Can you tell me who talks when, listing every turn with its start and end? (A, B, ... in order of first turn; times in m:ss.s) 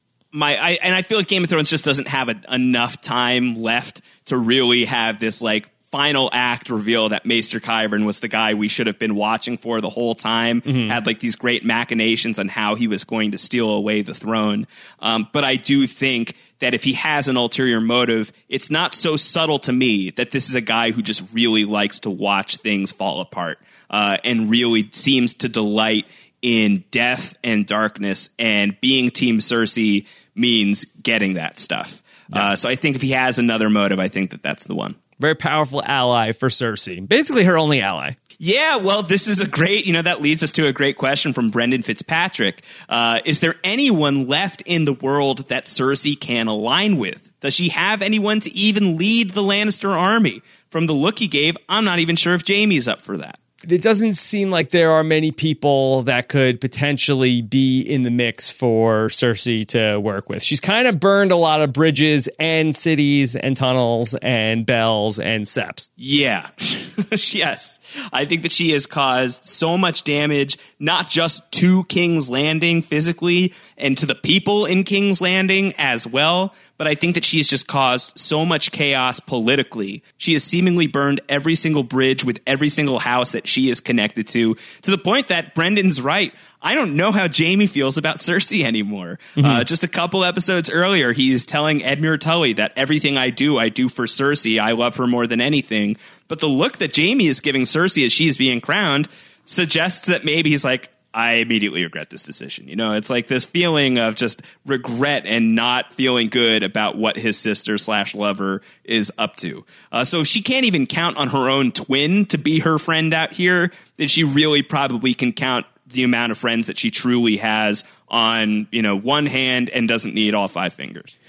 0:00.3-0:35.0 A
0:10.7-0:11.0 B
0:35.2-0:38.2 B
0:38.4-0:53.4 A
0:53.6-1:05.9 B
1:06.0-2:01.1 A
1:29.4-1:29.6 B